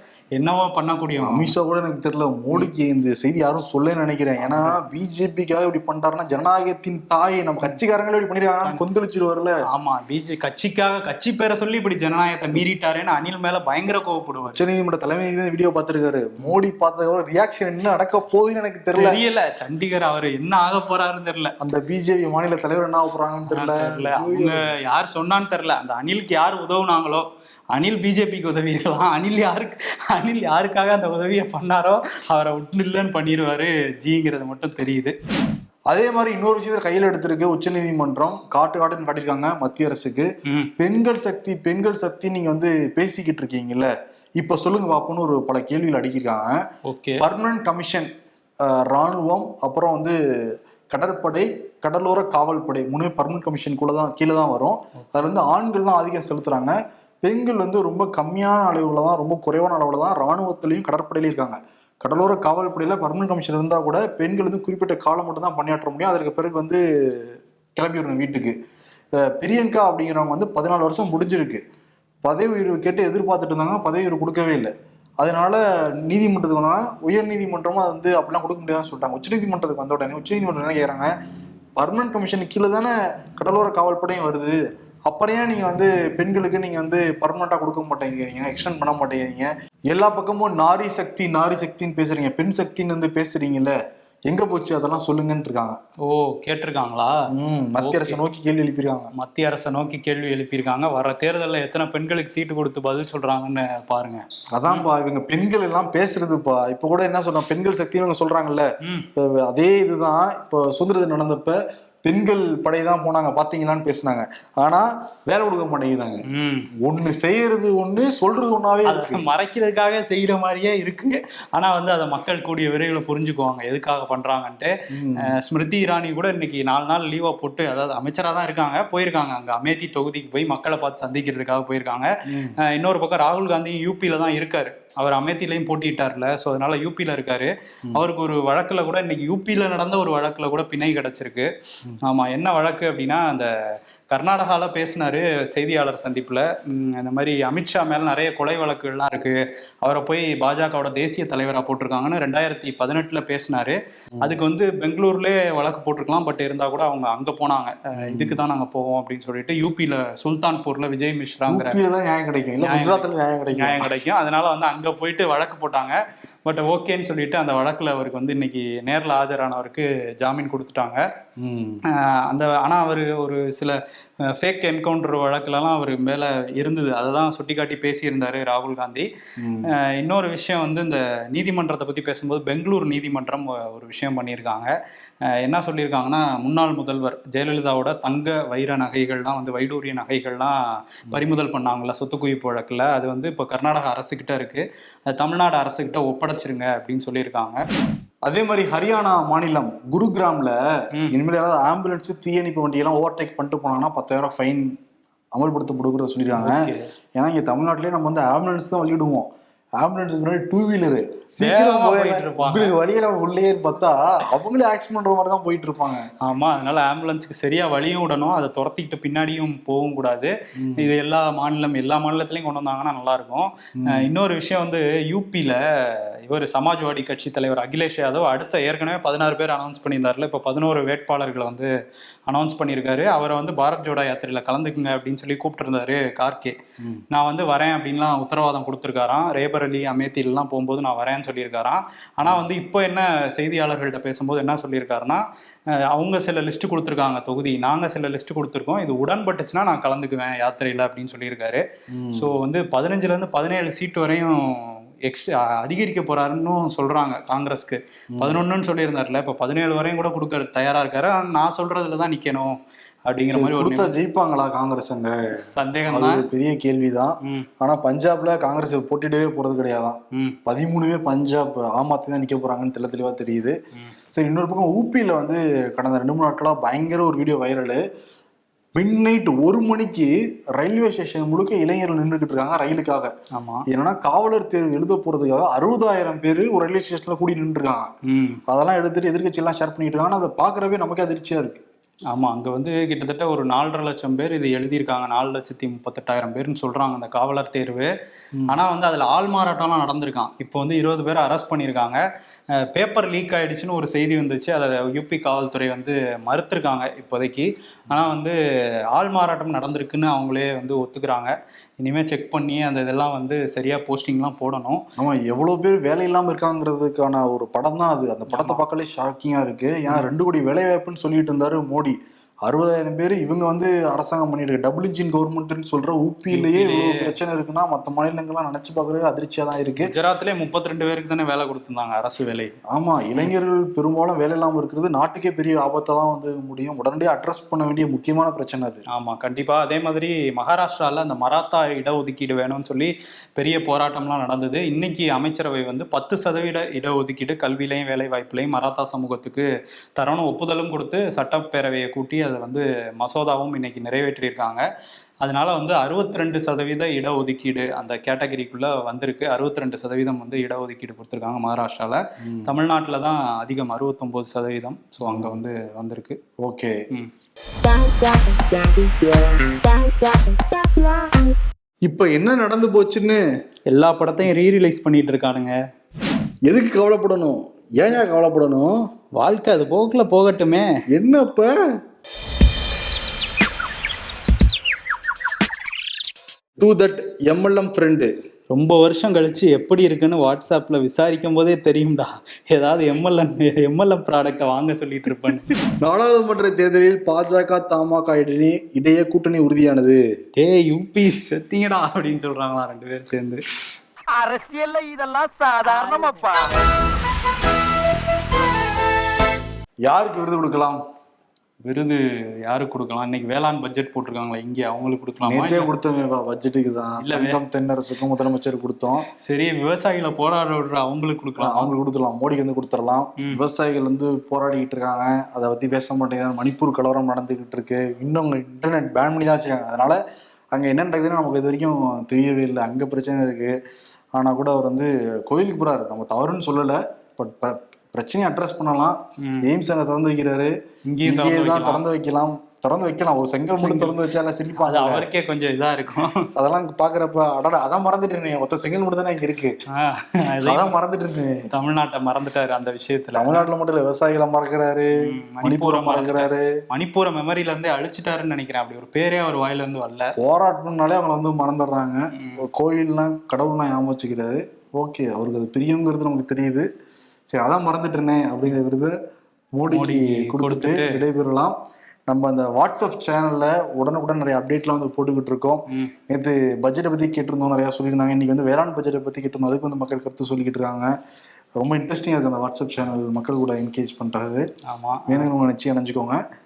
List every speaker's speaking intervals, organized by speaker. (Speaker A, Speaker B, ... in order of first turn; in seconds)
Speaker A: 0.4-1.5, 4.4-4.8, 9.7-14.6, 18.9-21.5, 23.5-35.1, 46.9-47.2, 96.0-97.2, 97.8-98.2, 99.1-104.9, 116.3-116.7, 118.8-141.5, 142.0-143.5, 144.1-161.8, 162.6-171.0, 171.9-179.1, 179.7-184.7, 185.2-190.6, 191.1-197.6, 206.4-206.9, 211.4-212.7, 216.2-231.7, 232.3-236.6, 237.1-263.9, 265.4-266.2, 270.1-270.4, 283.3-283.6, 288.0-288.4, 292.1-297.9, 298.5-302.0, 302.6-308.4, 308.9-314.8, 318.3-318.6, 326.3-327.2, 329.8-332.5, 338.9-354.6, 355.2-366.2, 373.7-375.6, 379.2-380.7, 388.5-395.5, 400.4-403.4, 411.6-415.7, 417.0-417.4, 419.2-421.7, 440.9-441.8, 443.6-444.0, 444.6-446.3, 449.7-450.8, 451.5-453.5, 455.0-460.1, 469.7-471.0, 484.7-485.3
Speaker B: 1.2-9.6, 14.5-19.2, 21.6-24.6, 35.9-46.6, 47.2-48.1, 48.6-50.2, 50.9-68.5, 69.2-71.6, 72.2-81.1, 81.8-93.8, 94.3-95.8, 97.3-99.1, 104.5-116.2, 116.8-119.2, 124.9-125.3, 132.3-132.6, 158.0-158.4, 161.5-163.9, 171.4-171.8, 179.4-179.7, 198.2-200.6, 201.1-204.7, 205.3-206.7, 207.2-209.3, 209.8-216.1, 220.6-220.9, 223.8-224.1, 251.9-252.3, 258.1-258.4, 263.3-273.6, 274.1-277.8, 278.8-283.1, 283.7-287.9, 288.5-291.6, 315.0-329.9, 332.7-338.8, 362.2-362.5, 365.0-365.4, 366.4-366.8, 371.9-373.2, 376.5-378.8, 380.9-381.6, 386.6-388.1, 395.8-400.0, 409.9-410.8, 415.2-419.1, 421.4-430.0, 430.5-433.6, 434.1-440.5, 441.1-445.1, 446.4-449.6, 450.4-451.5, 453.1-456.6, 460.2-466.7, 467.3-468.9, 469.6-471.5, 472.1-480.9, 481.6-484.4, 485.1-486.2
Speaker C: 367.6-371.3, 404.1-406.5